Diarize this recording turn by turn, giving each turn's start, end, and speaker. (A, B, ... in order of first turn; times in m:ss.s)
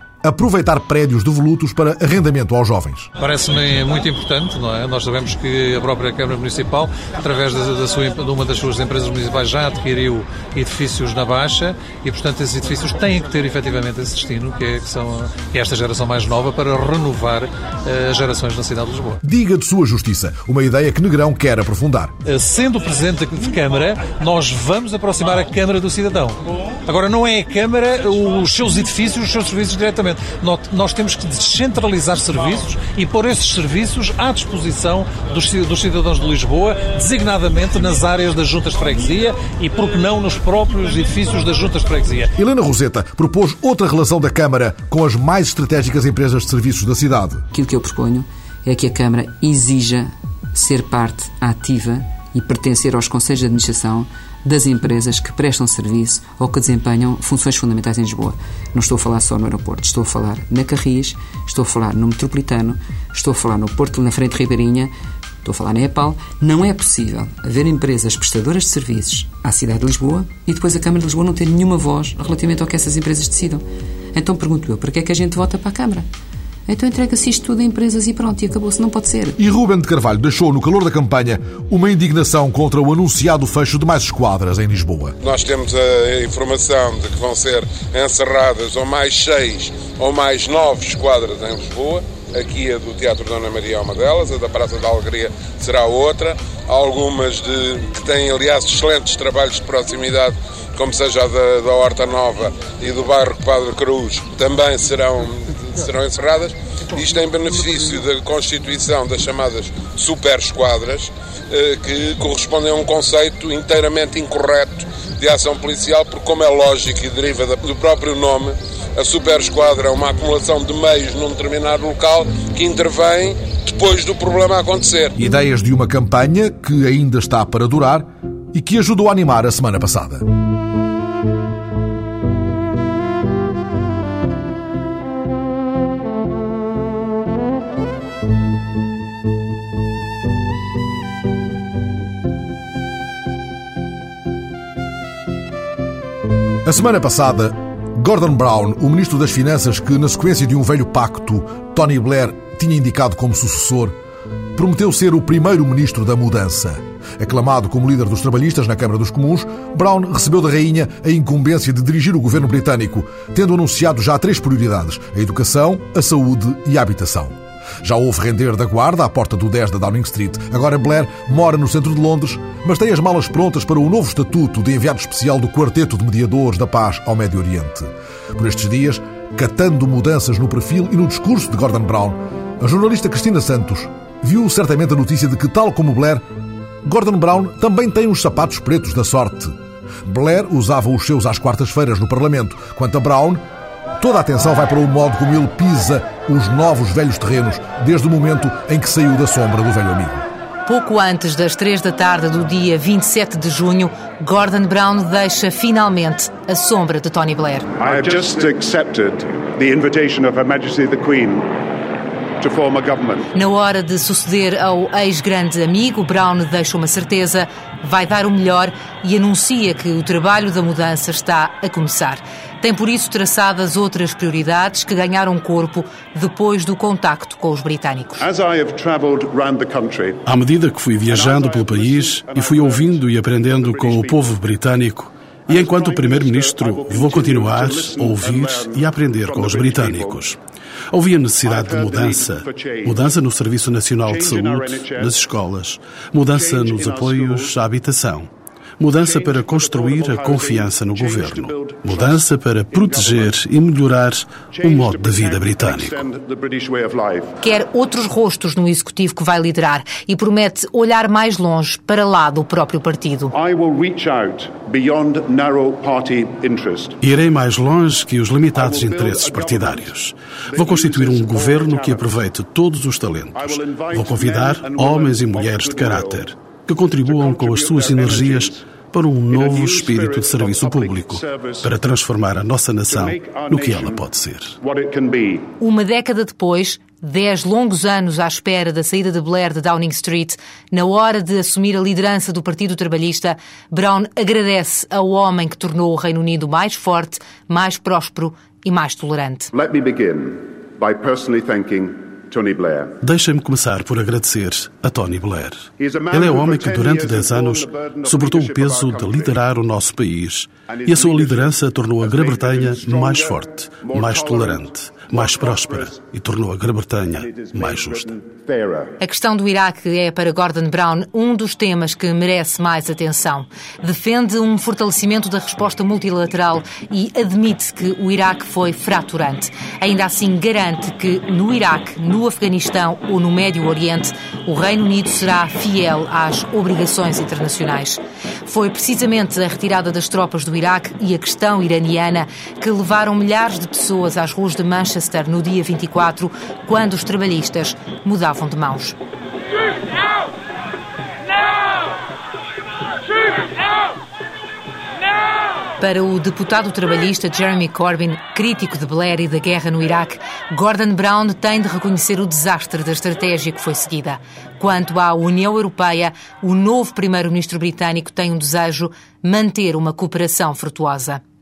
0:00.2-0:03.1 A
0:03.2-0:19.2 B
0:19.2-0:22.1 A
0:22.2-0:42.3 B
0:42.4-0:47.5 A
0:47.5-0:50.0 C
0:50.6-0:51.7 C
0:52.4-1:04.9 C
1:05.5-1:07.3 C
1:07.9-1:09.6 C
1:10.2-1:10.8 C
1:19.4-1:25.2 A
1:25.2-2:05.2 D
2:05.2-2:10.2 A
2:26.6-2:34.0 A
2:34.5-3:06.2 A
3:06.8-3:13.4 A
3:14.0-3:20.2 A
3:20.6-3:27.7 E
3:27.8-3:31.5 F
3:32.4-3:33.3 F
3:33.3-3:48.2 E
3:48.2-3:50.2 F
3:50.2-4:00.4 G
3:51.0-3:54.5 F
3:55.5-4:00.2 F
4:00.9-4:16.0 G
4:01.4-4:03.1 F
4:04.0-4:05.2 F
4:06.2-4:07.5 F
4:08.9-4:13.4 F
4:14.5-4:17.3 F
4:17.4-4:23.3 E
4:23.3-4:27.0 F
4:27.0-4:44.5 G
4:28.5-4:30.0 F
4:30.5-4:32.2 F
4:33.3-4:36.3 F
4:36.8-4:38.6 F
4:39.3-4:41.8 F
4:42.8-4:44.1 F
4:44.6-4:45.5 F
4:45.6-4:59.5 E
4:59.5-5:02.9 F
5:03.0-5:18.1 G
5:05.8-5:09.4 F
5:10.7-5:16.0 F
5:17.0-5:19.0 F
5:19.0-5:49.0 E
5:55.8-6:11.2 E